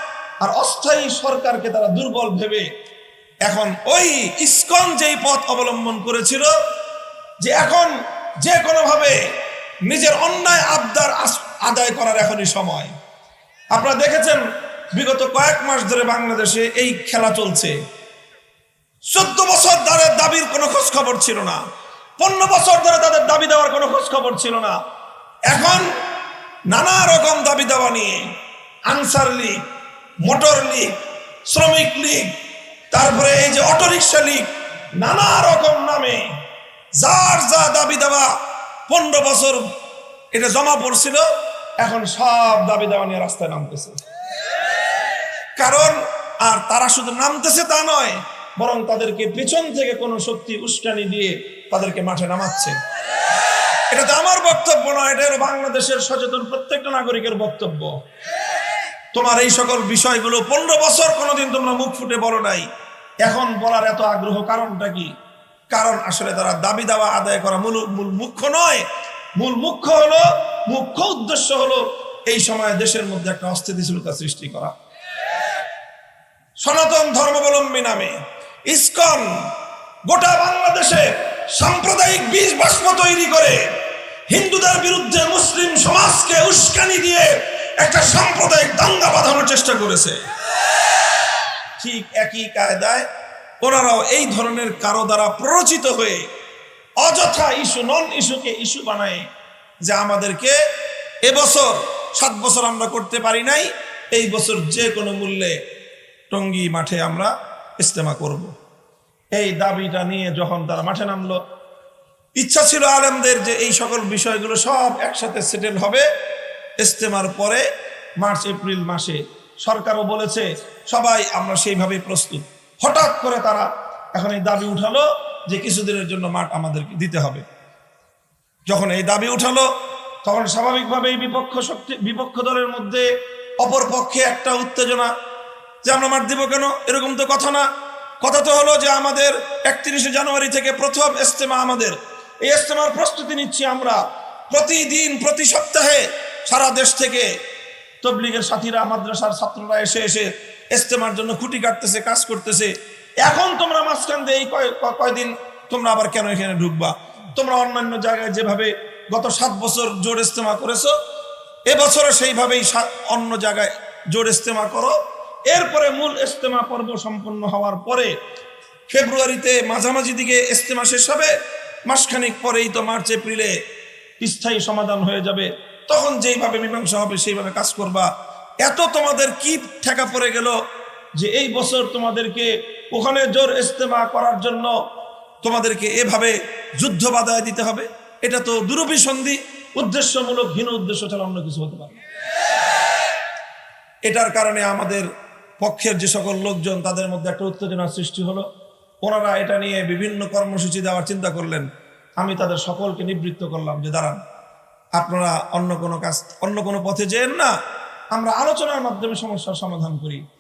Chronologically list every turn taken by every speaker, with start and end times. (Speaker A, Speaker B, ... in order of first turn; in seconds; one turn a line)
Speaker A: 0.4-2.6
Speaker A: 3.5-6.5
Speaker A: 7.4-9.2
Speaker A: 9.9-12.9
Speaker A: 13.7-14.4
Speaker A: 14.9-17.8
Speaker A: 19.1-21.6
Speaker A: 22.2-24.8
Speaker A: 25.5-25.9
Speaker A: 26.7-28.2
Speaker A: 28.9-29.6
Speaker A: 30.2-30.9
Speaker A: 31.5-32.3
Speaker A: 32.9-34.5
Speaker A: 35.0-36.3
Speaker A: 37.0-38.3
Speaker A: 38.9-39.6
Speaker A: 40.3-41.2
Speaker A: 41.8-44.0
Speaker A: 45.6-52.8
Speaker A: 53.9-57.9
Speaker A: 59.1-62.7
Speaker A: 63.2-65.1
Speaker A: 65.7-68.8
Speaker A: 69.4-74.7
Speaker A: 76.6-78.2
Speaker A: 78.7-79.3
Speaker A: 80.1-83.6
Speaker A: 84.3-90.2
Speaker A: 91.8-93.1
Speaker A: 93.6-96.2
Speaker A: 97.0-99.2
Speaker A: 99.8-100.6
Speaker A: 101.3-105.5
Speaker A: 106.3-108.5
Speaker A: 109.3-111.4
Speaker A: 112.4-116.0
Speaker A: 116.8-117.6
Speaker A: 118.2-127.4
Speaker A: 128.7-129.7
Speaker A: 130.2-133.1
Speaker A: 133.6-135.1
Speaker A: 135.8-137.7
Speaker A: 138.2-144.0
Speaker A: 144.5-147.3
Speaker A: 148.0-160.9
Speaker A: 161.7-164.9
Speaker A: 165.5-168.1
Speaker A: 168.9-171.3
Speaker A: 171.9-173.5
Speaker A: 174.2-178.1
Speaker A: 178.6-180.6
Speaker A: 181.2-184.7
Speaker A: 185.4-191.9
Speaker A: 194.1-195.1
Speaker A: 195.6-198.4
Speaker A: 199.0-201.7
Speaker A: 202.2-204.2
Speaker A: 205.0-207.5
Speaker A: 208.1-210.2